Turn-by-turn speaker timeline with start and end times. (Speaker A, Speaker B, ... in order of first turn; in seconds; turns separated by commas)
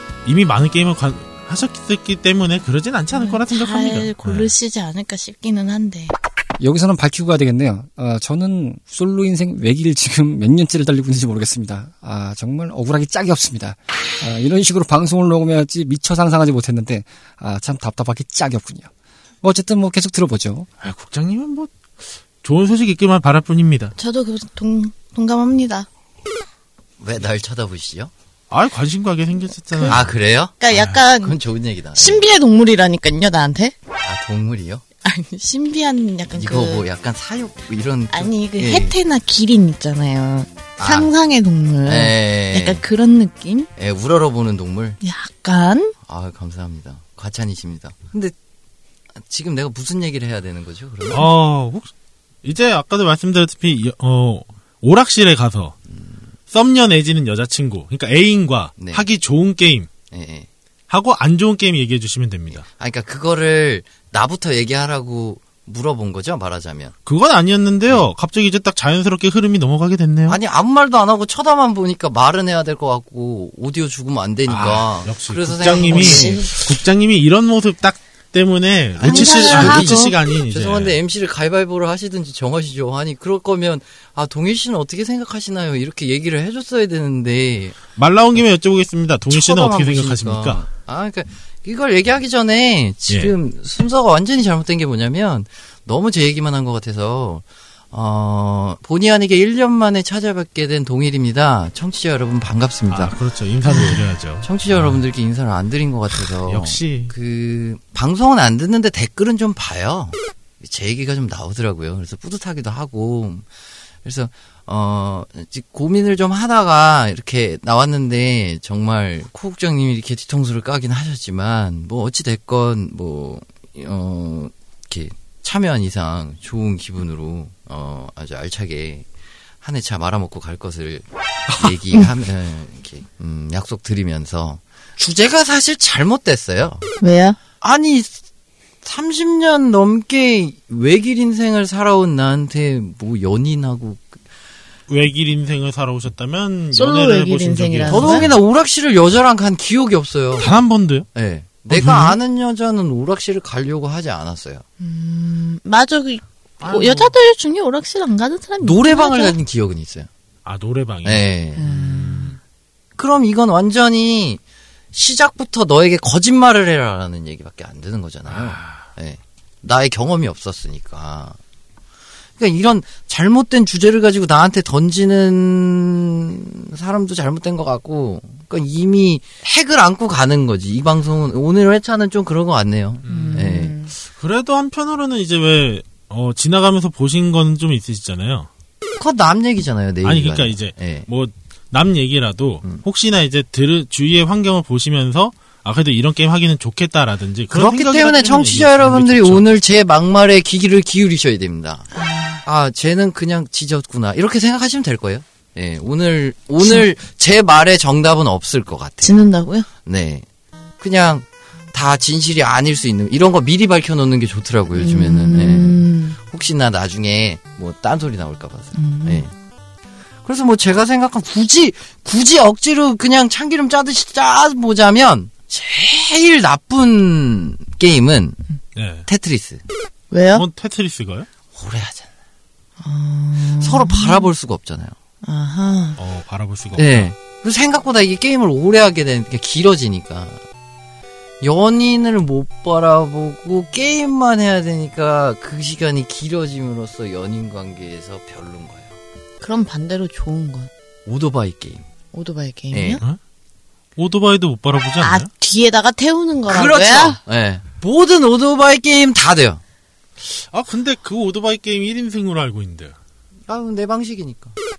Speaker A: 0.2-4.5, Speaker B: 3.1-6.1, Speaker C: 6.6-18.9, Speaker C: 19.4-20.7, Speaker A: 20.8-23.9, Speaker B: 24.0-25.9, Speaker D: 27.0-28.1, Speaker A: 28.5-30.1, Speaker B: 29.7-30.0, Speaker D: 29.8-30.6, Speaker B: 30.6-31.4, Speaker A: 30.7-31.0, Speaker D: 31.2-32.3, Speaker B: 31.9-33.7, Speaker D: 34.0-34.8, Speaker B: 35.0-36.9, Speaker D: 36.4-38.9, Speaker B: 38.1-43.7, Speaker D: 40.8-41.1, Speaker D: 41.8-42.8, Speaker D: 43.8-45.0, Speaker B: 45.0-45.9, Speaker D: 46.0-48.3, Speaker D: 49.1-51.3, Speaker A: 51.1-51.9, Speaker A: 52.4-55.8, Speaker D: 55.9-56.3, Speaker A: 56.5-59.9, Speaker D: 58.8-59.0, Speaker D: 60.1-60.5, Speaker A: 60.9-62.6, Speaker D: 62.5-67.0, Speaker A: 67.0-70.4, Speaker D: 70.3-76.5, Speaker A: 74.5-80.9, Speaker B: 75.6-76.5, Speaker D: 79.0-87.8, Speaker B: 79.0-80.1, Speaker A: 88.0-90.6, Speaker D: 89.3-103.2, Speaker A: 93.1-93.3, Speaker A: 102.9-105.0, Speaker B: 103.7-104.0, Speaker D: 103.7-113.5, Speaker A: 106.1-107.1, Speaker D: 114.0-129.1, Speaker D: 129.6-136.8, Speaker B: 137.0-137.4, Speaker D: 137.6-138.2, Speaker D: 138.8-144.2, Speaker A: 144.9-148.4, Speaker B: 146.7-148.2, Speaker D: 147.8-150.6, Speaker A: 150.4-151.1, Speaker D: 151.1-154.6, Speaker A: 151.7-152.2, Speaker B: 154.8-159.3, Speaker A: 156.6-157.1, Speaker D: 158.6-160.1, Speaker A: 160.4-162.4, Speaker D: 161.0-161.6, Speaker B: 161.6-162.4, Speaker D: 162.9-164.4, Speaker D: 164.9-171.4, Speaker A: 168.3-168.8, Speaker D: 172.4-183.7, Speaker A: 183.0-188.5, Speaker B: 183.1-183.9, Speaker D: 189.0-191.1, Speaker A: 190.0-199.5, Speaker D: 197.5-201.9, Speaker B: 201.9-202.4, Speaker D: 202.4-209.2, Speaker B: 209.0-209.7, Speaker D: 209.8-210.2, Speaker D: 210.8-219.3, Speaker B: 214.7-216.2, Speaker B: 218.7-219.2, Speaker D: 220.2-228.4, Speaker A: 228.7-229.1, Speaker D: 229.1-229.6, Speaker B: 230.1-230.4, Speaker A: 230.3-231.3, Speaker D: 231.5-232.1, Speaker B: 232.8-234.3, Speaker D: 233.6-234.9, Speaker B: 235.2-236.0, Speaker A: 236.0-237.1, Speaker D: 236.7-240.4, Speaker D: 241.4-249.0, Speaker B: 249.4-250.7, Speaker D: 251.1-251.9, Speaker B: 252.1-253.0, Speaker D: 252.7-253.0, Speaker A: 254.0-255.3, Speaker B: 255.0-257.2, Speaker D: 256.5-259.6, Speaker A: 260.2-262.9, Speaker D: 263.5-264.5